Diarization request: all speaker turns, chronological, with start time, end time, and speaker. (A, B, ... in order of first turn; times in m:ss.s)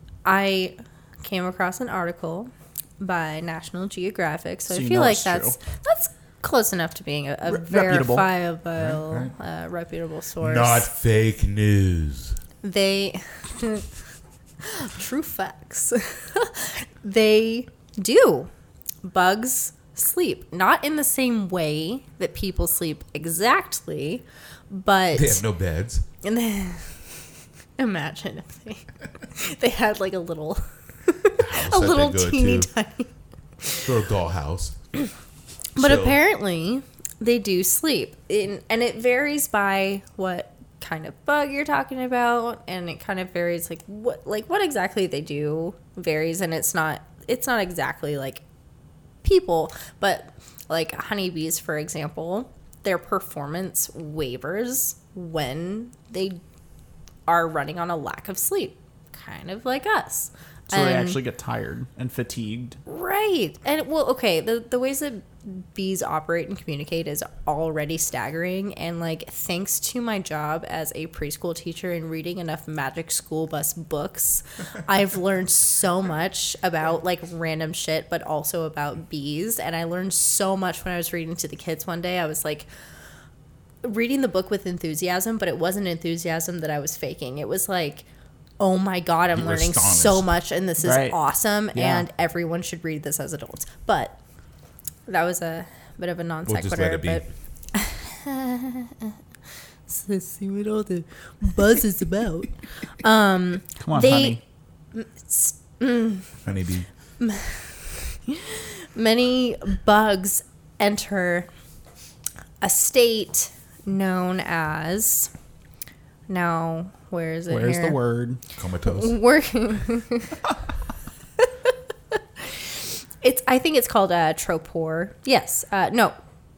0:00.2-0:10.9 A
0:04.7-0:05.6 B
0:07.4-0:08.3 B
0:08.8-0:09.3 C
0:10.4-0:12.4 C
0:12.6-0:13.9 A
0:14.6-0:18.5 A
0:19.0-0:25.4 A
0:25.1-0:26.0 C
0:26.2-0:26.9 A
0:27.8-0:33.1 A
0:31.4-0:32.7 C
0:33.6-0:33.9 A
0:33.7-0:34.8 C
0:35.8-0:36.2 C
0:35.8-0:48.4 A
0:49.2-0:56.4 A
0:57.3-1:01.2 A
1:00.7-1:02.8 B
1:02.8-1:22.7 A
1:23.8-1:28.0 A
1:28.6-1:34.2 A
1:29.3-1:30.3 C
1:30.8-1:31.2 B
1:31.7-1:32.0 B
1:35.1-1:39.2 A
1:36.4-1:37.2 C
1:39.9-1:44.4 A
1:43.8-1:44.4 B
1:44.9-1:46.3 A
1:46.4-1:46.9 C
1:47.2-1:51.5 A
1:52.6-1:55.3 A
1:56.3-1:58.0 A
1:57.5-1:58.4 B
1:58.6-1:59.2 C
1:58.8-2:00.4 A
2:01.4-2:06.1 A